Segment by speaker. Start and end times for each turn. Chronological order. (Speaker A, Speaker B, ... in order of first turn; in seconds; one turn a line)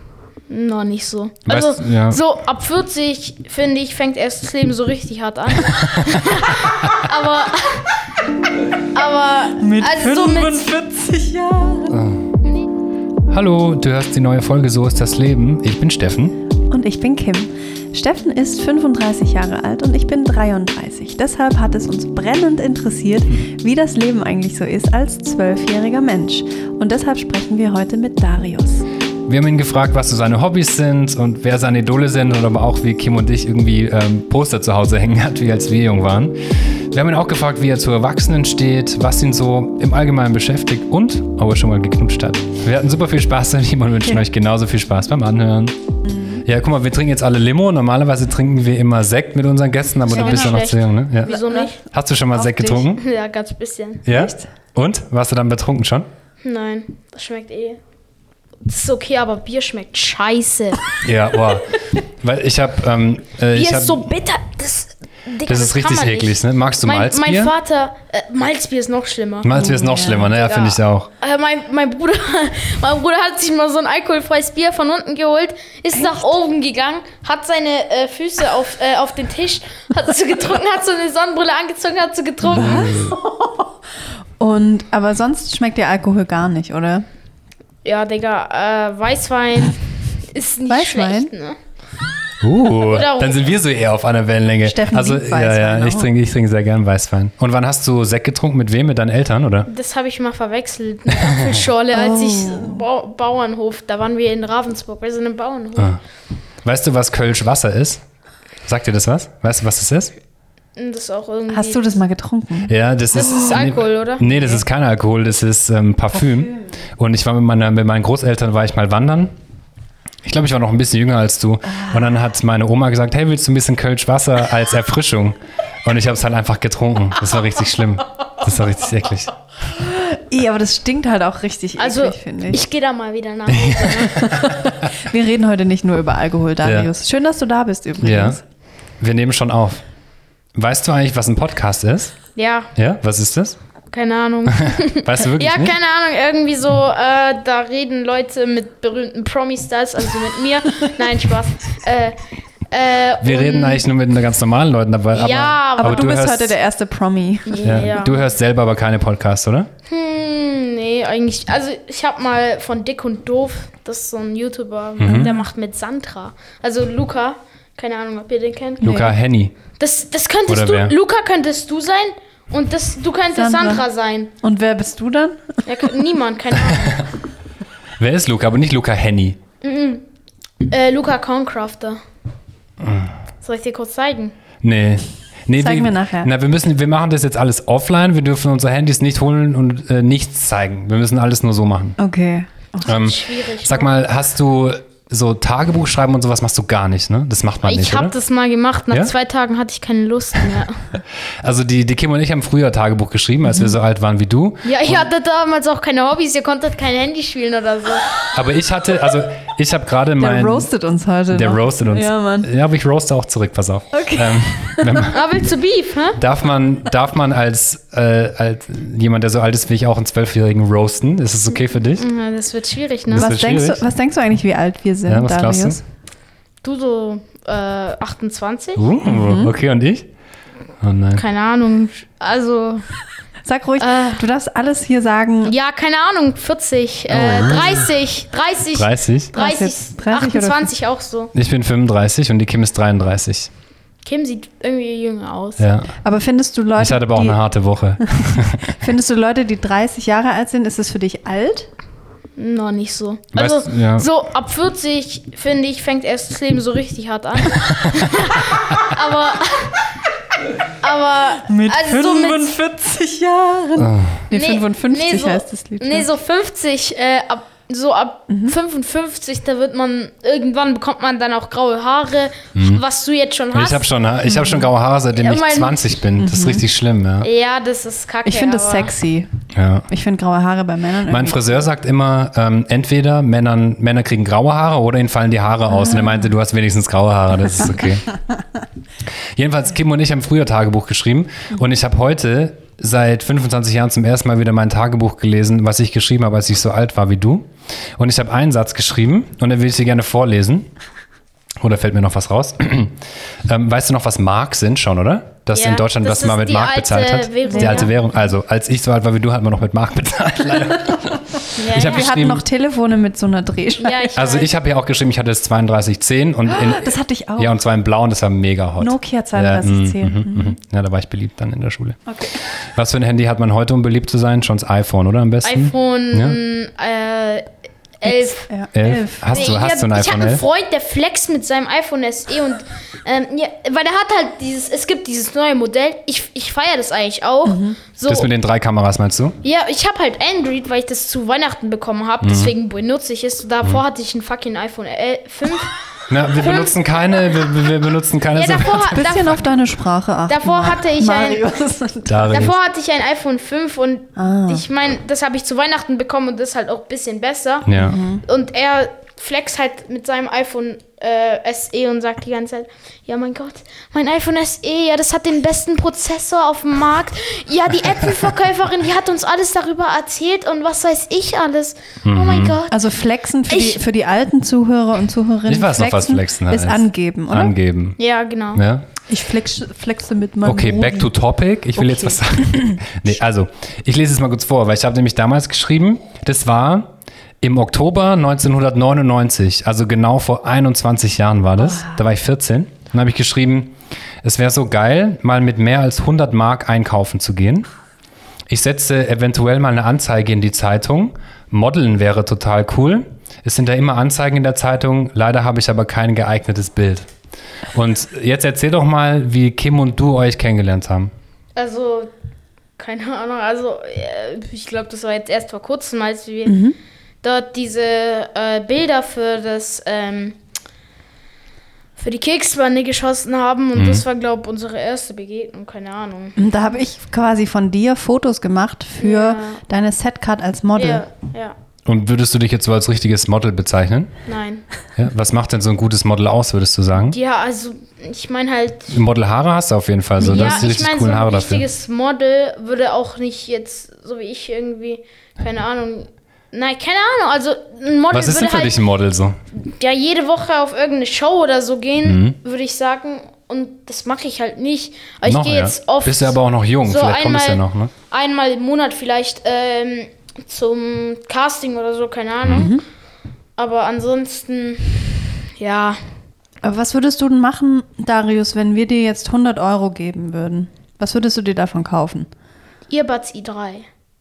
Speaker A: 0.5-8.1
Speaker B: 1.5-2.2
Speaker B: 5.7-7.0
Speaker A: 8.8-10.7
Speaker C: 9.6-12.0
Speaker B: 11.9-12.3
Speaker B: 13.3-16.4
Speaker C: 16.7-28.8
Speaker B: 29.3-45.8
Speaker C: 46.0-46.4
Speaker B: 46.4-51.3
Speaker A: 50.1-51.8
Speaker C: 50.1-50.6
Speaker C: 51.2-51.7
Speaker B: 51.8-53.0
Speaker C: 52.3-52.9
Speaker A: 53.0-54.0
Speaker B: 54.0-56.1
Speaker C: 54.1-54.5
Speaker A: 56.4-57.8
Speaker A: 58.6-61.0
Speaker B: 61.0-64.0
Speaker A: 63.5-69.5
Speaker B: 65.5-67.5
Speaker B: 69.4-71.1
Speaker C: 69.5-70.3
Speaker A: 70.3-83.0
Speaker C: 75.9-76.3
Speaker C: 82.5-83.7
Speaker B: 82.6-83.1
Speaker C: 84.4-87.0
Speaker A: 87.8-91.5
Speaker C: 90.7-91.3
Speaker B: 92.4-99.7
Speaker A: 92.8-93.4
Speaker C: 94.6-96.1
Speaker A: 99.7-106.0
Speaker B: 101.3-101.6
Speaker C: 101.9-102.8
Speaker B: 106.6-108.0
Speaker B: 108.6-110.1
Speaker A: 110.8-111.9
Speaker C: 111.5-113.5
Speaker B: 112.7-119.3
Speaker A: 113.1-114.2
Speaker B: 120.2-129.3
Speaker C: 121.7-122.1
Speaker C: 129.7-132.6
Speaker A: 131.8-134.3
Speaker B: 133.8-134.1
Speaker C: 134.2-138.4
Speaker B: 136.6-136.9
Speaker B: 138.0-138.4
Speaker B: 139.0-139.8
Speaker B: 140.5-142.2
Speaker A: 142.3-142.7
Speaker B: 142.7-143.6
Speaker A: 143.9-152.2
Speaker B: 144.5-145.8
Speaker A: 152.7-153.8
Speaker B: 153.2-156.5
Speaker A: 155.1-156.1
Speaker C: 155.8-157.9
Speaker A: 157.5-158.2
Speaker B: 157.6-159.7
Speaker A: 159.9-169.1
Speaker B: 165.0-165.3
Speaker C: 165.0-165.4
Speaker B: 168.8-169.5
Speaker A: 169.8-174.3
Speaker B: 170.5-170.9
Speaker C: 173.3-173.8
Speaker C: 174.4-175.6
Speaker A: 175.7-177.1
Speaker B: 178.0-179.4
Speaker A: 179.6-180.0
Speaker A: 180.6-182.0
Speaker B: 182.8-183.1
Speaker A: 183.4-184.3
Speaker B: 184.6-191.9
Speaker C: 185.6-186.3
Speaker C: 192.0-192.9
Speaker A: 192.8-193.9
Speaker B: 192.8-198.1
Speaker A: 197.6-200.9
Speaker B: 201.4-205.1
Speaker C: 203.4-203.7
Speaker A: 204.6-208.2
Speaker B: 208.3-210.7
Speaker C: 210.2-212.5
Speaker B: 211.3-215.2
Speaker C: 213.9-215.1
Speaker A: 215.1-216.2
Speaker B: 216.2-222.1
Speaker A: 222.0-223.3
Speaker B: 223.1-223.8
Speaker C: 223.1-225.8
Speaker B: 225.1-225.8
Speaker A: 226.6-228.8
Speaker B: 228.8-230.1
Speaker C: 229.0-229.5
Speaker B: 230.8-231.2
Speaker A: 231.2-232.9
Speaker C: 233.4-235.5
Speaker A: 233.8-234.2
Speaker A: 235.4-241.3
Speaker B: 237.1-237.9
Speaker B: 238.7-239.3
Speaker C: 239.3-240.7
Speaker B: 241.3-243.5
Speaker A: 244.0-245.7
Speaker B: 245.6-245.9
Speaker C: 246.0-247.4
Speaker B: 246.8-248.7
Speaker C: 248.0-251.7
Speaker A: 252.4-259.9
Speaker B: 253.3-254.1
Speaker A: 260.7-262.5
Speaker C: 261.4-266.1
Speaker B: 263.8-264.2
Speaker A: 264.3-273.8
Speaker C: 268.3-268.6
Speaker B: 272.6-272.8
Speaker B: 273.5-277.3
Speaker C: 274.2-274.7
Speaker A: 275.1-275.8
Speaker C: 276.2-276.6
Speaker A: 277.2-278.9
Speaker C: 278.2-279.3
Speaker B: 279.5-279.9
Speaker C: 279.9-281.4
Speaker B: 281.1-288.0
Speaker C: 285.7-286.3
Speaker C: 288.1-288.4
Speaker B: 289.3-300.7
Speaker B: 301.6-312.4
Speaker A: 305.6-307.9
Speaker C: 307.5-307.9
Speaker A: 311.6-312.1
Speaker C: 311.7-314.1
Speaker A: 313.8-314.5
Speaker B: 314.1-326.4
Speaker C: 316.5-317.6
Speaker C: 318.8-320.6
Speaker C: 322.1-322.4
Speaker A: 325.4-327.5
Speaker A: 328.0-328.5
Speaker C: 328.0-329.5
Speaker B: 328.7-330.4
Speaker A: 329.3-338.3
Speaker C: 337.4-337.8
Speaker B: 338.1-339.4
Speaker A: 339.4-345.8
Speaker B: 342.2-342.5
Speaker B: 346.1-349.1
Speaker A: 346.3-347.5
Speaker A: 348.3-349.4
Speaker C: 348.9-352.3
Speaker A: 350.3-351.4
Speaker B: 352.1-352.6
Speaker A: 352.3-372.8
Speaker C: 354.1-354.6
Speaker B: 357.6-358.0
Speaker C: 357.8-358.2
Speaker B: 372.0-372.6
Speaker C: 372.7-377.5
Speaker A: 373.5-373.8
Speaker B: 375.5-378.0
Speaker A: 378.0-378.6
Speaker B: 378.5-378.9
Speaker C: 379.1-381.1
Speaker B: 380.4-386.9
Speaker C: 381.8-382.8
Speaker B: 387.4-397.7
Speaker C: 391.7-392.0
Speaker B: 398.5-407.1
Speaker B: 407.7-411.1
Speaker A: 411.6-412.1
Speaker A: 412.8-416.6
Speaker C: 416.4-416.8
Speaker A: 417.2-420.4
Speaker A: 422.0-426.4
Speaker B: 423.7-424.0
Speaker C: 426.4-431.0
Speaker A: 429.0-429.6
Speaker A: 430.8-431.5
Speaker B: 431.9-434.1
Speaker A: 434.2-434.6
Speaker B: 435.0-437.2
Speaker A: 437.0-438.9
Speaker B: 438.9-441.7
Speaker A: 440.2-448.8
Speaker C: 440.2-440.6
Speaker B: 448.1-449.4
Speaker A: 449.6-462.7
Speaker B: 452.0-452.4
Speaker B: 455.2-457.9
Speaker C: 462.5-462.8
Speaker A: 463.6-466.0
Speaker C: 466.6-472.3
Speaker A: 472.9-473.9